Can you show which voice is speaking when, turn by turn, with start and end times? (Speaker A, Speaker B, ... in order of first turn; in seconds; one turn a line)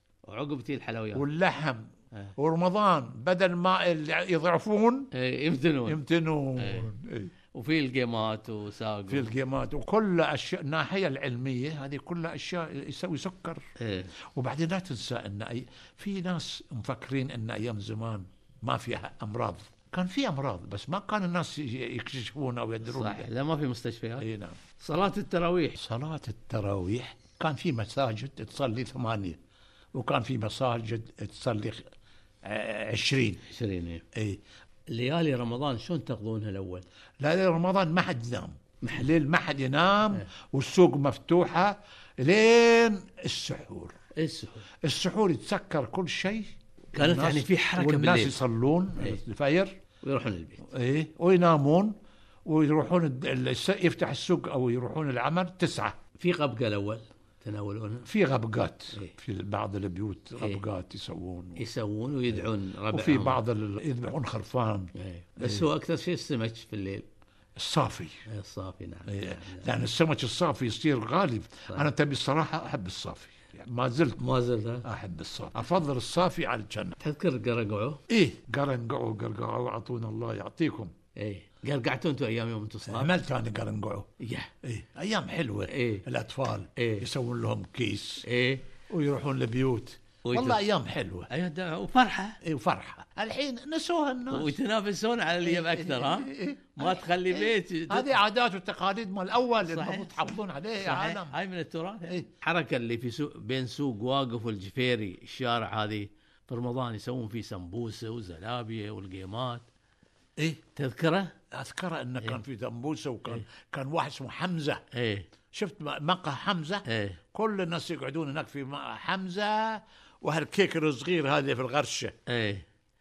Speaker A: 0.2-1.2
Speaker B: 1.1-5.1
Speaker A: 5.1-6.0
Speaker B: 5.9-7.3
Speaker A: 6.6-6.8
Speaker A: 7.5-9.3
Speaker B: 9.1-13.6
Speaker A: 13.8-14.1
Speaker B: 14.2-23.3
Speaker A: 22.8-24.2
Speaker B: 24.2-24.6
Speaker A: 24.8-25.8
Speaker B: 25.8-29.4
Speaker B: 29.9-31.9
Speaker B: 32.4-33.4
Speaker A: 33.5-34.0
Speaker B: 34.1-34.4
Speaker A: 34.9-36.8
Speaker B: 37.2-44.0
Speaker A: 38.8-39.1
Speaker A: 44.1-44.6
Speaker B: 44.8-49.8
Speaker A: 46.9-48.4
Speaker A: 50.0-50.6
Speaker B: 50.7-56.0
Speaker A: 56.2-58.1
Speaker B: 58.0-61.6
Speaker A: 61.5-63.4
Speaker B: 62.3-65.7
Speaker A: 64.9-67.0
Speaker B: 67.5-68.1
Speaker A: 68.2-69.7
Speaker B: 69.1-74.2
Speaker A: 74.2-74.9
Speaker B: 74.8-77.0
Speaker A: 77.0-78.0
Speaker B: 78.1-80.9
Speaker A: 81.2-83.1
Speaker B: 82.8-84.1
Speaker A: 84.2-84.5
Speaker B: 84.6-88.2
Speaker A: 85.7-86.0
Speaker A: 86.8-87.1
Speaker A: 88.2-88.6
Speaker B: 88.9-91.3
Speaker A: 90.2-90.6
Speaker A: 91.3-92.4
Speaker B: 92.4-94.5
Speaker A: 94.3-98.1
Speaker B: 95.4-101.3
Speaker A: 99.6-109.6
Speaker A: 110.7-111.3
Speaker B: 111.5-114.8
Speaker A: 114.9-115.3
Speaker B: 115.5-122.1
Speaker A: 116.9-117.2
Speaker A: 122.3-122.7